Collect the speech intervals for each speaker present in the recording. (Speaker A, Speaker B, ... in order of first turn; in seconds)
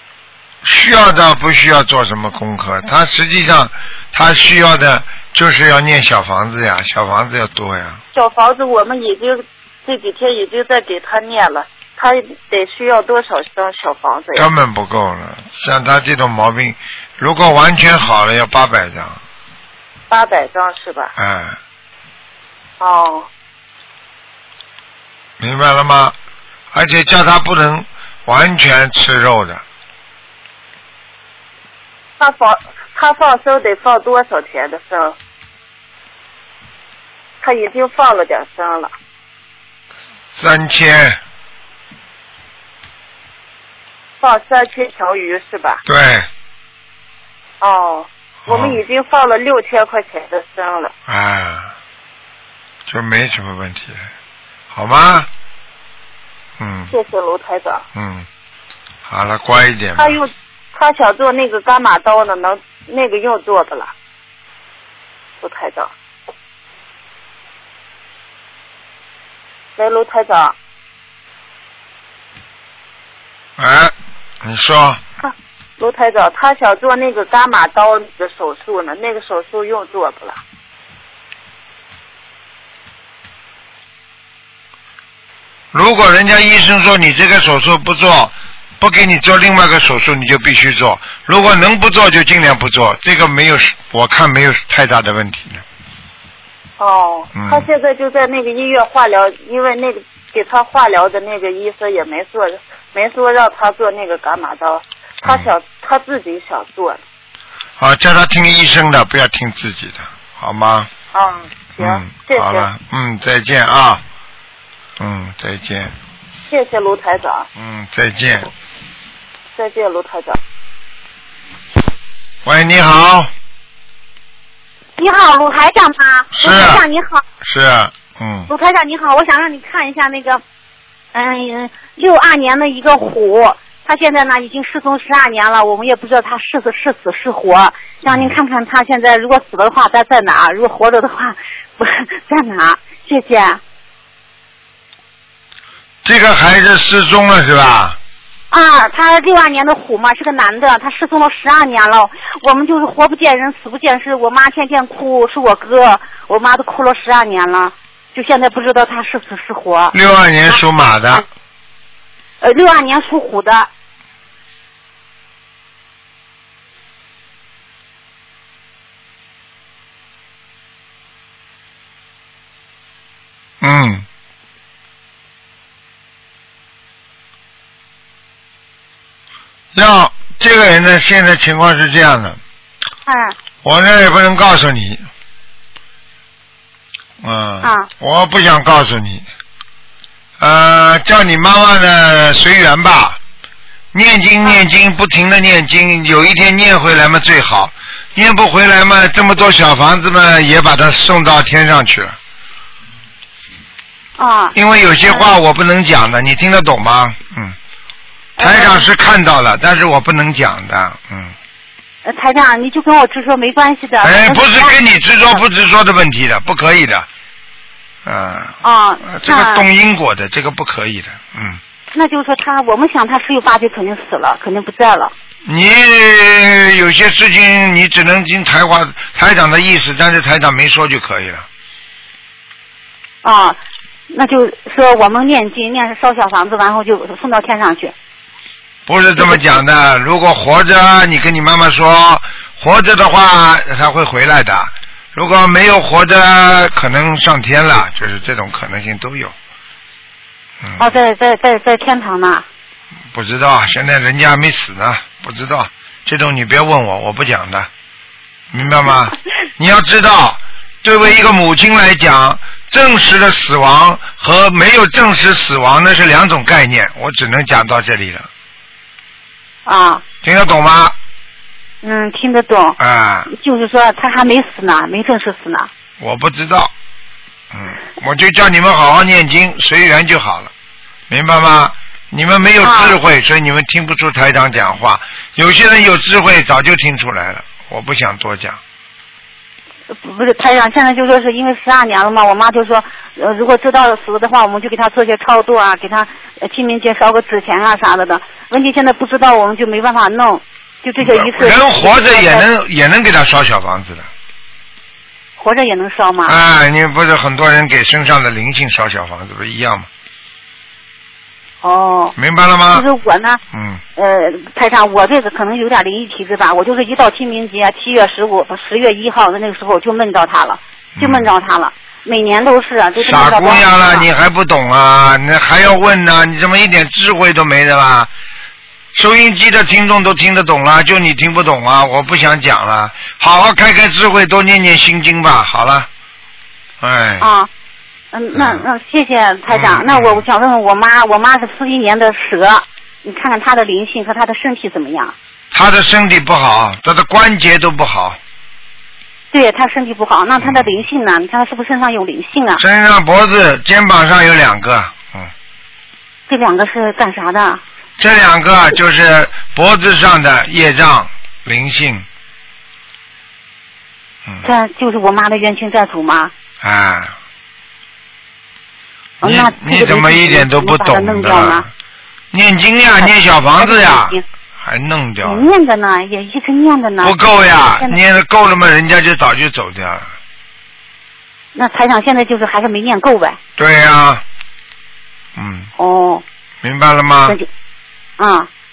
Speaker A: 0.6-8.0, 14.3-19.2, 21.2-21.6, 25.4-26.2, 26.7-29.6, 40.4-41.2, 45.9-46.3, 48.5-48.8, 51.1-51.7, 52.9-54.1, 54.7-55.3, 56.6-56.9, 58.0-58.3, 59.1-60.2, 73.6-75.0, 85.7-95.6, 97.3-97.7, 105.2-105.5, 107.8-110.9, 111.8-114.0, 115.0-115.9, 117.5-118.5, 122.5-123.3, 126.3-126.8, 127.4-128.5, 138.1-138.4, 146.0-148.0, 159.9-161.2, 173.6-174.1, 179.8-182.4, 183.6-185.1, 187.2-189.3, 190.4-193.2, 193.9-202.2, 204.6-207.6, 208.4-211.3, 214.0-217.1, 218.1-221.6, 225.4-231.5, 238.9-249.3, 250.6-250.9, 253.1-257.7, 258.5-268.3, 270.2-270.9, 272.8-273.3, 276.0-276.7, 277.5-280.5, 281.1-288.6, 301.0-304.1, 306.3-309.9, 312.2-312.9, 313.5-313.8, 321.0-321.3, 323.0-328.1, 328.9-335.9, 336.8-337.3, 338.4-338.6, 339.5-340.2, 345.5-348.2, 350.4-350.8, 352.6-355.3, 358.0-362.1, 366.6-367.1, 369.2-371.7, 372.3-375.5, 377.0-380.1, 383.6-384.2, 385.4-385.7, 386.6-387.4
Speaker B: 8.2-14.5, 20.1-21.1, 22.8-23.3, 32.2-35.1, 37.4-38.9, 44.2-45.8, 47.6-50.9, 56.9-57.8, 60.0-63.9, 65.4-65.9, 69.8-70.5, 75.8-80.3, 96.8-107.0, 111.1-112.7, 116.5-117.4, 119.6-120.4
Speaker C: 125.0-127.2, 128.5-130.4, 131.1-143.6, 148.5-160.0, 162.4-163.7, 183.1-183.4, 187.6-187.9, 204.2-205.4, 208.4-208.9, 212.1-214.8, 218.6-219.7, 221.9-225.1, 233.2-233.6, 234.1-237.9, 239.2-239.6, 250.8-252.4, 269.7-270.0, 271.8-275.7, 282.6-283.0, 289.9-302.4, 305.4-306.4, 311.6-312.1, 312.7-313.4, 314.0-324.1, 337.2-337.5, 338.1-345.1, 349.3-352.6, 356.3-357.6, 364.4-366.3, 369.2-371.7, 373.0-374.2, 375.2-377.2, 377.8-378.0, 381.5-383.4, 385.8-386.2, 388.2-388.5